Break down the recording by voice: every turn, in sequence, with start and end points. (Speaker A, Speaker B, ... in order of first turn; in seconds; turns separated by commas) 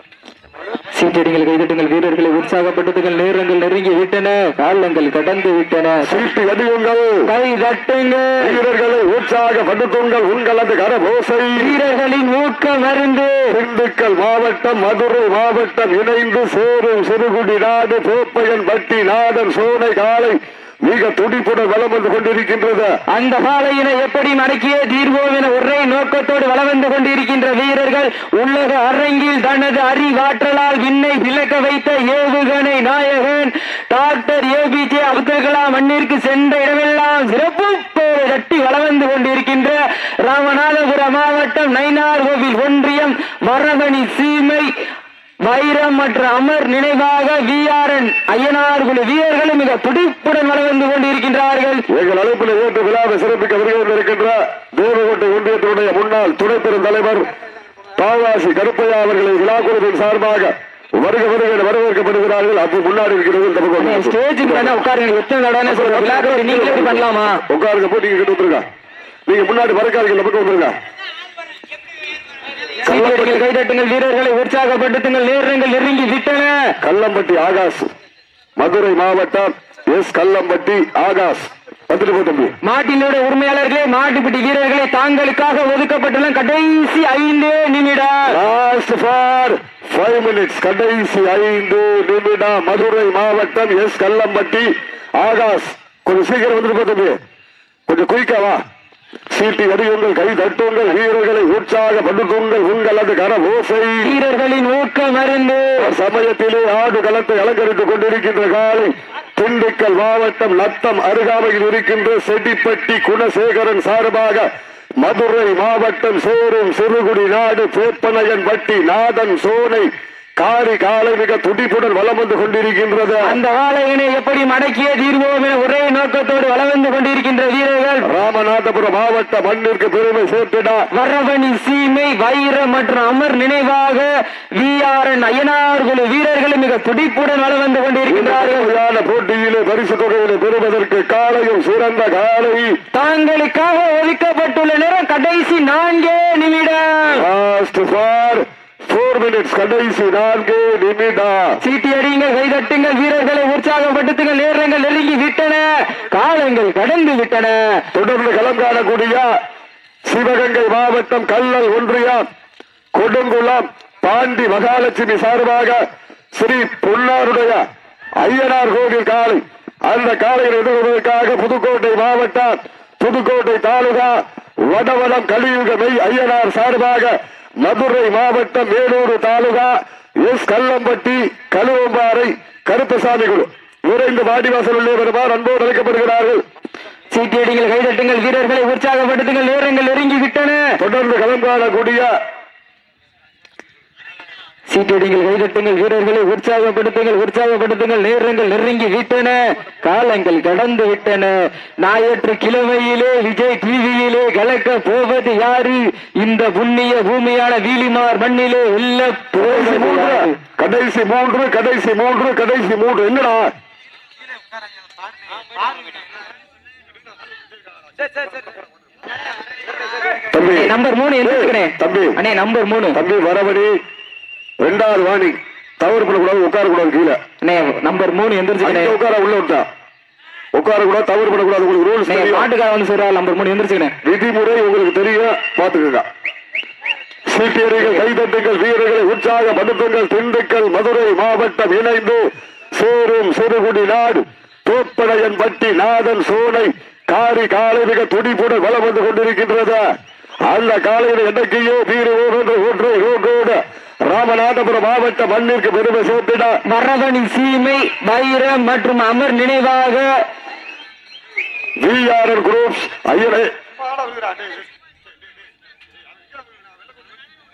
Speaker A: 0.9-6.2, Speaker B: 6.0-7.3, Speaker A: 7.3-8.6, Speaker B: 8.4-11.7, Speaker A: 11.6-13.5, Speaker B: 13.5-22.9, Speaker A: 23.1-44.7, Speaker A: 45.4-51.8, Speaker B: 51.9-57.3, Speaker B: 58.0-64.8, Speaker A: 63.8-67.4, Speaker B: 65.7-68.7, Speaker B: 69.3-70.8, Speaker A: 72.8-76.7, Speaker B: 72.8-73.4, Speaker B: 76.8-77.9, Speaker B: 78.6-82.5, Speaker A: 82.6-88.3, Speaker B: 88.3-97.2, Speaker B: 97.9-98.6, Speaker B: 99.3-104.1, Speaker A: 104.0-105.9, Speaker B: 105.8-114.5, Speaker B: 115.0-123.4, Speaker A: 123.2-128.1, Speaker B: 128.1-130.9, Speaker A: 130.9-138.7, Speaker B: 138.1-142.8, Speaker A: 142.9-147.2, Speaker B: 147.1-151.6, Speaker A: 151.6-157.8, Speaker B: 157.9-159.3, Speaker B: 160.1-162.2, Speaker B: 162.9-165.8, Speaker B: 166.3-167.6, Speaker B: 168.2-186.4, Speaker A: 187.1-190.6, Speaker B: 190.8-192.1, Speaker A: 194.7-210.4, Speaker B: 209.3-213.5, Speaker B: 220.3-222.2, Speaker A: 220.5-223.0, Speaker B: 222.9-223.7, Speaker B: 224.6-227.2, Speaker A: 227.4-228.9, Speaker B: 228.6-229.7, Speaker B: 230.5-232.5, Speaker A: 232.1-233.9, Speaker B: 234.0-236.1, Speaker B: 237.3-249.9, Speaker A: 237.8-238.1, Speaker B: 250.5-256.6, Speaker A: 256.6-260.2, Speaker B: 261.8-263.5